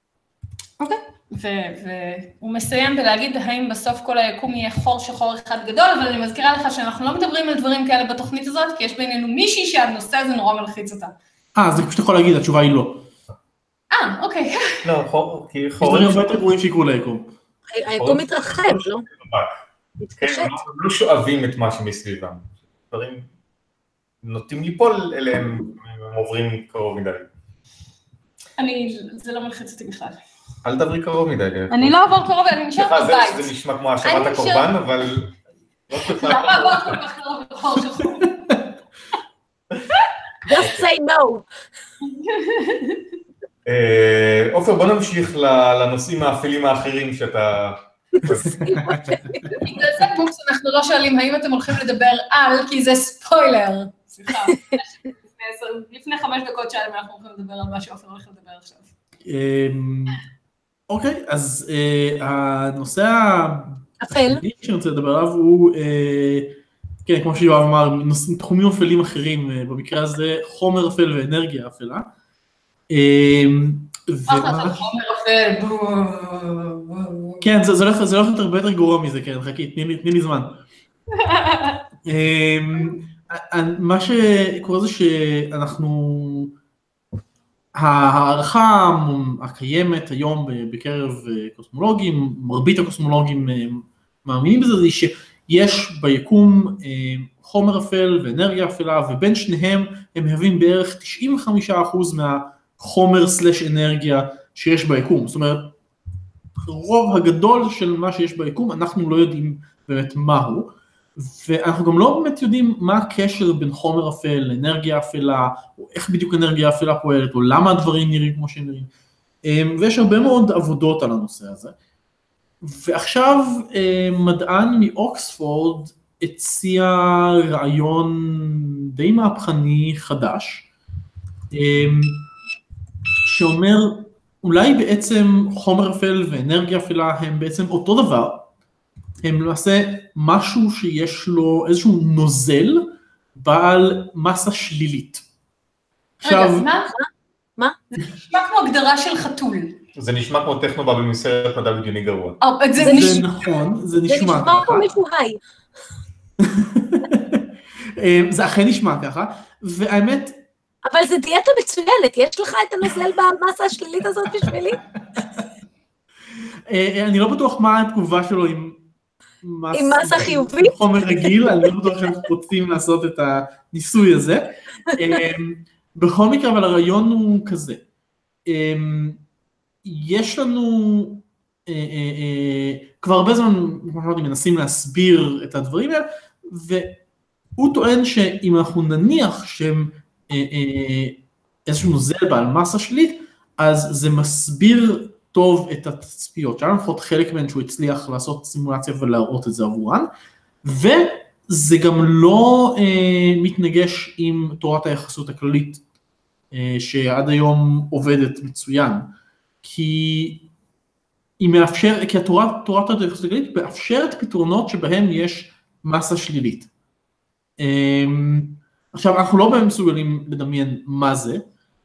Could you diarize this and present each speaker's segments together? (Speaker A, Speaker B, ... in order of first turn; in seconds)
Speaker A: 0.8-11.1, 13.9-14.8, 28.6-30.2, 31.7-33.5, 34.0-34.7, 36.0-38.3, 42.2-43.0, 49.6-58.9, 74.3-77.5, 81.1-81.8, 146.2-146.9, 148.0-149.8, 152.4-153.3
Speaker B: 11.6-13.1, 15.8-17.3, 48.5-49.6, 59.2-60.3, 60.9-72.1, 72.9-74.8, 77.4-80.6, 82.0-86.5, 87.7-105.8, 106.6-118.9, 119.5-121.8, 122.6-130.7, 131.5-132.3, 133.2-138.5, 139.2-145.2, 146.2-146.7, 152.9-154.9, 156.4-157.5, 158.0-160.4, 165.1-165.4, 166.7-168.9, 169.4-177.8, 178.5-179.2, 179.8-187.0, 187.6-200.1, 200.6-205.8, 206.5-209.1, 209.6-210.5, 211.4-216.7, 217.6-221.4
Speaker C: 14.8-16.5, 18.0-19.6, 20.2-23.3, 24.2-27.3, 30.6-32.1, 32.8-35.3, 35.9-37.0, 40.5-40.9, 43.6-48.8, 149.9-152.4
Speaker D: 17.7-19.1, 20.0-20.6, 40.5-41.5, 48.6-49.6, 54.5-54.8, 64.0-64.4, 146.9-147.8, 152.8-153.2, 154.1-155.4, 160.8-164.8, 169.7-171.7